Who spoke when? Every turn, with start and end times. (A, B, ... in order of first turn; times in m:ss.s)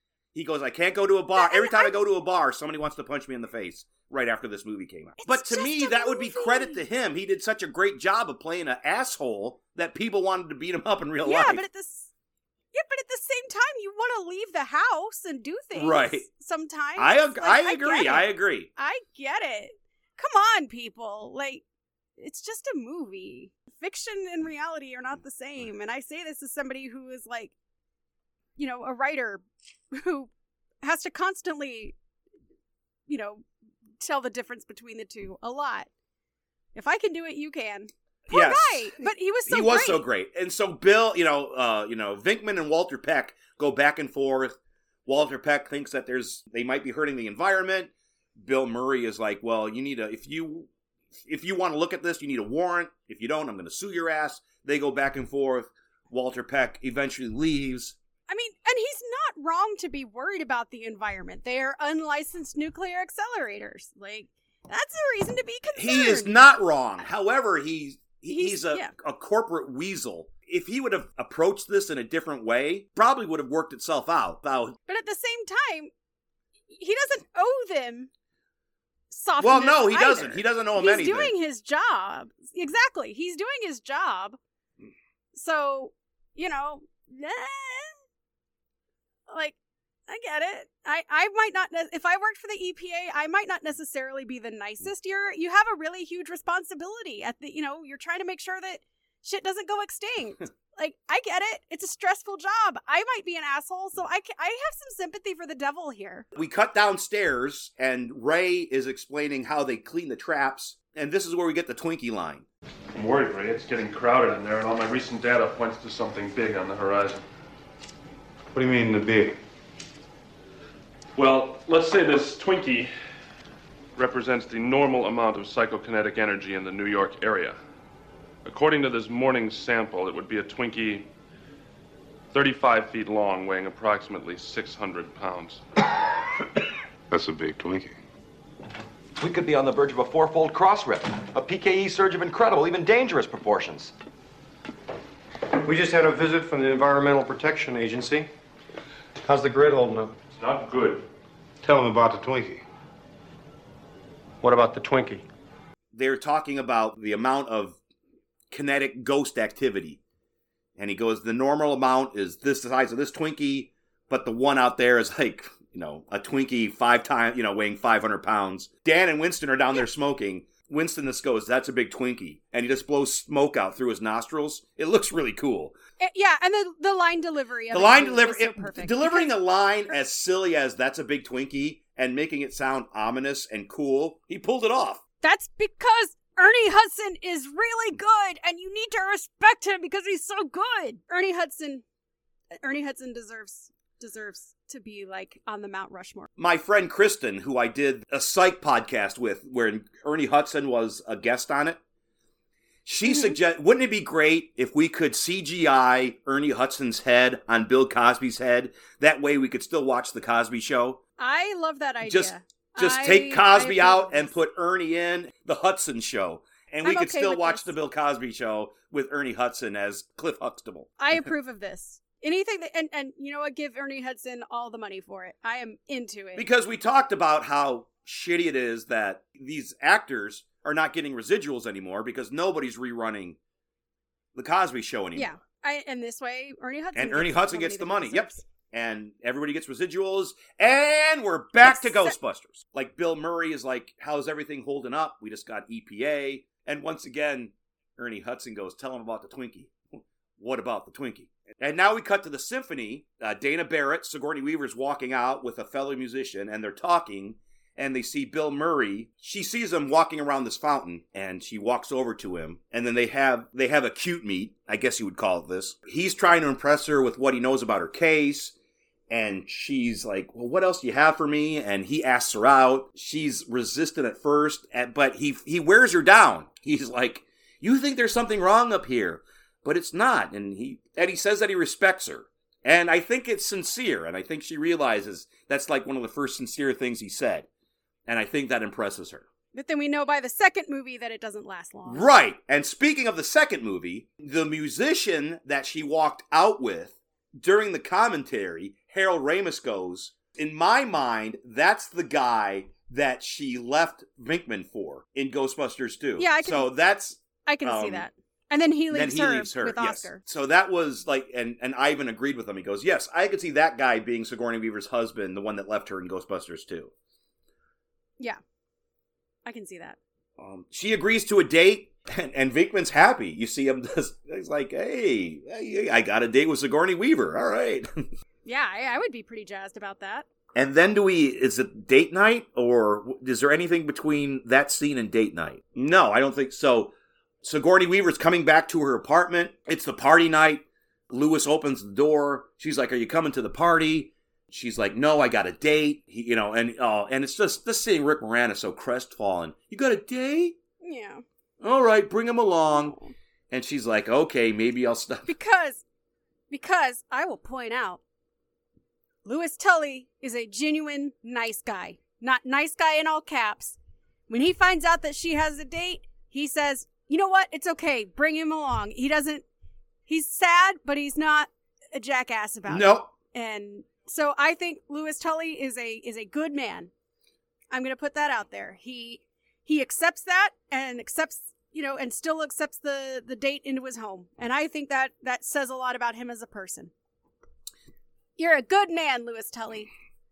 0:00.3-0:11.6 A
0:01.4-0:01.9 B
0:05.2-0:06.8 B
0:11.2-0:12.1 B
0:12.7-0:21.6 B
0:15.7-0:16.2 A
0:17.0-0:18.7 A
0:22.2-0:27.5 B
0:28.6-0:30.3 B
0:30.8-0:32.0 B
0:33.1-0:33.4 B
0:34.0-0:35.9 B
0:36.7-0:40.0 B
0:38.3-0:58.0 A
0:58.3-1:06.4 B
1:05.7-1:14.8 A
1:08.3-1:08.9 B
1:14.9-1:15.9 B
1:16.7-1:18.1 B
1:19.1-1:24.4 B
1:19.4-1:21.3 A
1:25.3-1:28.0 B
1:29.3-1:29.6 B
1:30.1-1:46.3 B
1:46.3-1:52.4 A
1:52.9-1:57.2 C
1:58.5-1:59.4 D
2:01.2-2:02.9 C
2:03.9-2:07.6 C
2:08.4-2:11.1 C
2:12.3-2:15.6 C
2:17.1-2:18.0 D
2:19.2-2:23.9 E
2:25.6-2:28.3 F
2:29.2-2:30.1 F
2:30.4-2:31.0 C
2:31.6-2:32.6 D
2:34.4-2:35.2 F
2:35.9-2:37.8 A
2:38.5-2:40.0 A
2:40.8-2:55.8 A
2:56.0-2:59.3 B
2:57.7-3:05.0 A
3:05.2-3:11.8 B
3:12.6-3:16.3 B
3:16.4-3:21.8 A
3:22.8-3:31.0 A
3:23.1-3:23.3 B
3:31.2-3:34.3 B
3:32.0-3:40.9 A
3:36.8-3:37.7 B
3:41.0-3:46.4 B
3:46.4-3:53.4 A
3:54.3-3:55.3 A
3:55.1-3:58.4 B
3:56.9-4:28.5 A
4:01.6-4:02.1 B
4:29.1-4:47.5 A
4:48.1-4:49.3 A
4:49.5-4:52.0 B
4:51.9-5:08.1 A
5:06.2-5:06.7 B
5:07.4-5:10.2 B
5:08.9-5:16.9 A
5:19.4-5:20.0 B
5:20.4-5:28.1 A
5:28.4-5:30.2 B
5:30.5-5:50.6 A
5:50.8-5:51.2 B
5:51.6-5:53.0 A
5:52.8-5:53.1 B
5:53.5-5:55.3 A
5:55.3-5:55.8 B
5:56.5-5:58.0 B
5:59.2-6:03.8 B
6:04.3-6:09.4 B
6:10.1-6:16.9 B
6:12.7-6:13.1 A
6:17.7-6:26.9 B
6:28.4-6:29.9 B